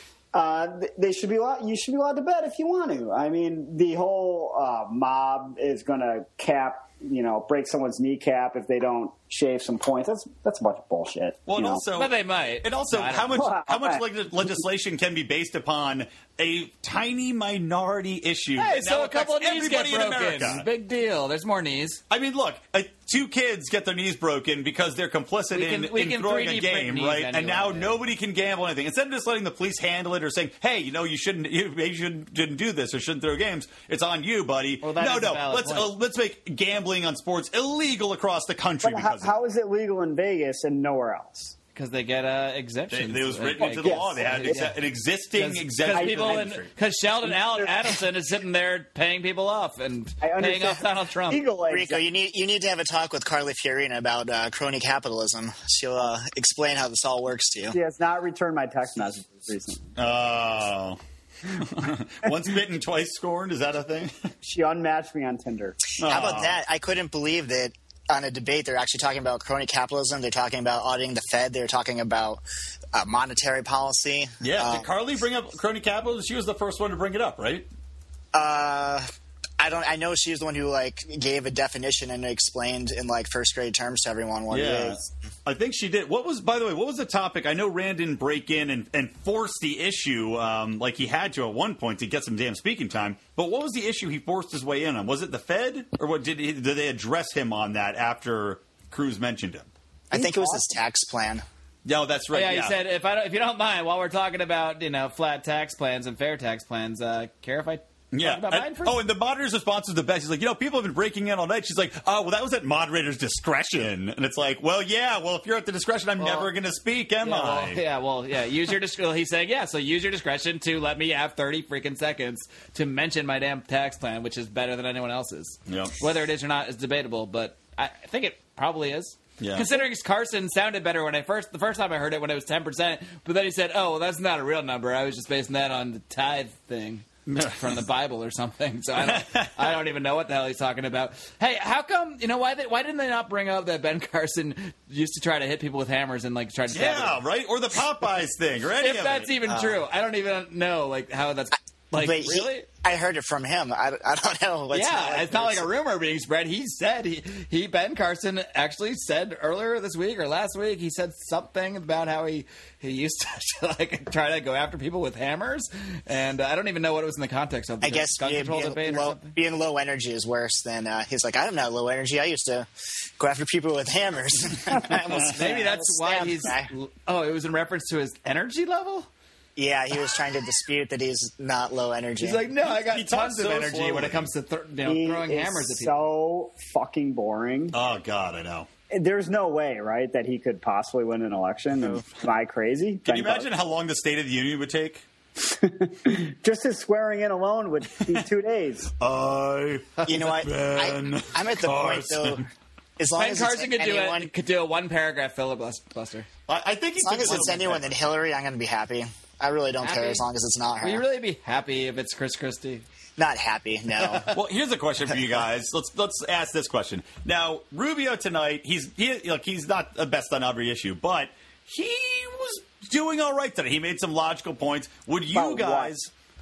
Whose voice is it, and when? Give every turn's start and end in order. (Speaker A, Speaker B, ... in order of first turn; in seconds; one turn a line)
Speaker A: 0.3-11.8
Speaker B: 11.5-20.6
Speaker C: 11.9-13.4
Speaker A: 13.3-14.0
Speaker C: 18.6-22.0
Speaker B: 22.1-39.4
Speaker C: 25.5-28.0
Speaker C: 34.8-35.9
Speaker A: 38.8-41.5
Speaker C: 41.7-44.8
Speaker B: 42.9-46.7
Speaker A: 43.6-44.6
Speaker C: 45.3-51.4
Speaker A: 45.9-46.5
Speaker A: 47.2-47.9
Speaker A: 50.2-52.0
Speaker D: 51.7-57.8
Speaker A: 57.7-59.9
Speaker B: 60.0-61.0
Speaker B: 61.5-64.1
Speaker A: 64.4-65.8
Speaker B: 66.0-66.5
Speaker D: 66.0-74.9
Speaker B: 74.4-77.7
Speaker D: 78.3-79.0
Speaker D: 79.6-85.0
Speaker B: 84.5-99.7
Speaker D: 100.1-101.4
Speaker A: 100.1-100.7
Speaker B: 101.8-102.7
Speaker C: 102.3-109.0
Speaker B: 108.1-117.8
Speaker C: 116.2-116.5
Speaker C: 117.2-147.2
Speaker B: 125.7-125.9
Speaker B: 129.4-129.7
Speaker B: 137.3-137.7
Speaker B: 139.0-139.6
Speaker B: 146.7-149.3
Speaker C: 148.8-152.7
Speaker D: 151.9-155.7
Speaker C: 154.7-169.3
Speaker D: 167.8-172.7
Speaker D: 173.2-176.7
Speaker C: 175.1-179.1
Speaker D: 179.6-182.4
Speaker C: 182.2-185.9
Speaker B: 182.6-184.3
Speaker A: 184.9-187.7
Speaker B: 187.7-188.7
Speaker A: 188.9-193.5
Speaker B: 193.1-195.0
Speaker A: 195.4-198.9
Speaker B: 199.0-202.4
Speaker D: 200.1-204.3
Speaker C: 203.2-206.3
Speaker B: 206.5-207.9
Speaker D: 207.0-211.0
Speaker C: 209.8-210.2
Speaker C: 210.8-212.8
Speaker D: 213.2-214.3
Speaker B: 214.3-226.1
Speaker A: 225.3-225.9